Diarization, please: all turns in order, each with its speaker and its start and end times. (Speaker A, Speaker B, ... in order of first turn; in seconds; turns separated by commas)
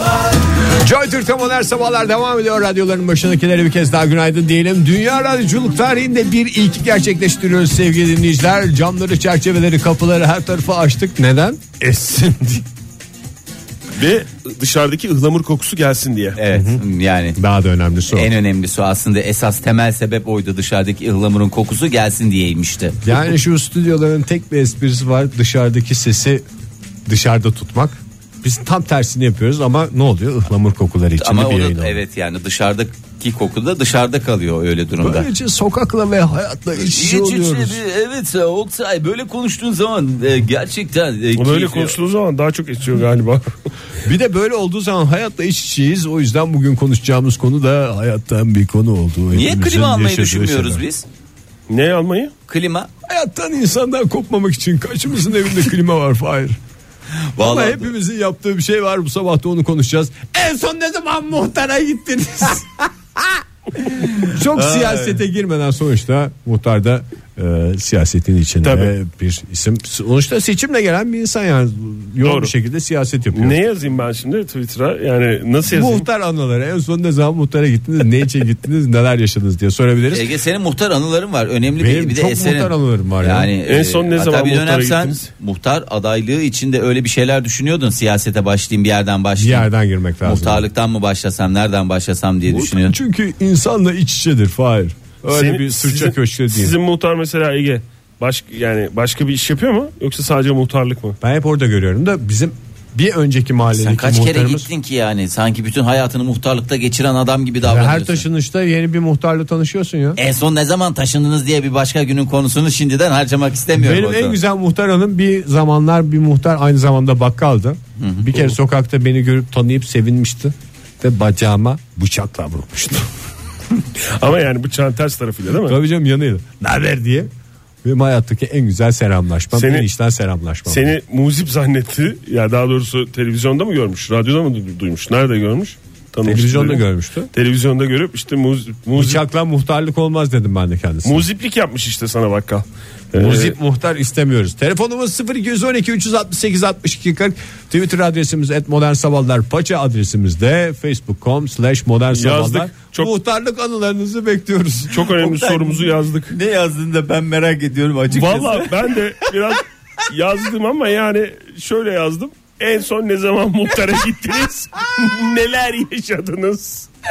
Speaker A: 0.8-12.6, Speaker B: 13.9-16.4, Speaker C: 16.4-17.4, Speaker A: 16.5-16.8, Speaker A: 17.4-18.3, Speaker C: 18.1-23.0, Speaker A: 23.0-26.4, Speaker A: 27.1-32.0, Speaker C: 31.2-35.3, Speaker A: 35.0-37.8, Speaker C: 36.8-42.0, Speaker B: 41.4-43.5, Speaker A: 44.0-50.8, Speaker C: 49.3-51.0, Speaker B: 51.7-52.3, Speaker C: 52.5-52.9, Speaker A: 53.0-56.6, Speaker C: 57.3-57.9, Speaker A: 57.4-73.6, Speaker C: 64.5-65.2, Speaker B: 68.6-68.9, Speaker B: 72.2-72.5, Speaker B: 73.3-76.0, Speaker A: 75.7-80.3, Speaker C: 80.1-89.7, Speaker A: 81.8-83.5, Speaker B: 83.7-85.3, Speaker A: 89.4-90.7, Speaker C: 90.2-92.9, Speaker A: 92.5-96.7, Speaker B: 95.3-101.2, Speaker A: 101.2-104.7, Speaker C: 103.7-108.2, Speaker A: 107.6-110.2, Speaker C: 110.2-114.4, Speaker A: 113.7-123.1, Speaker C: 118.0-118.3, Speaker B: 124.2-125.8, Speaker A: 125.6-127.3, Speaker A: 127.8-130.9, Speaker B: 129.5-129.8, Speaker B: 130.7-139.2, Speaker A: 136.2-137.3, Speaker A: 138.9-141.2, Speaker B: 141.0-143.6, Speaker A: 143.1-155.1, Speaker B: 152.1-153.1, Speaker B: 154.9-156.3, Speaker C: 155.2-158.7, Speaker B: 158.1-166.9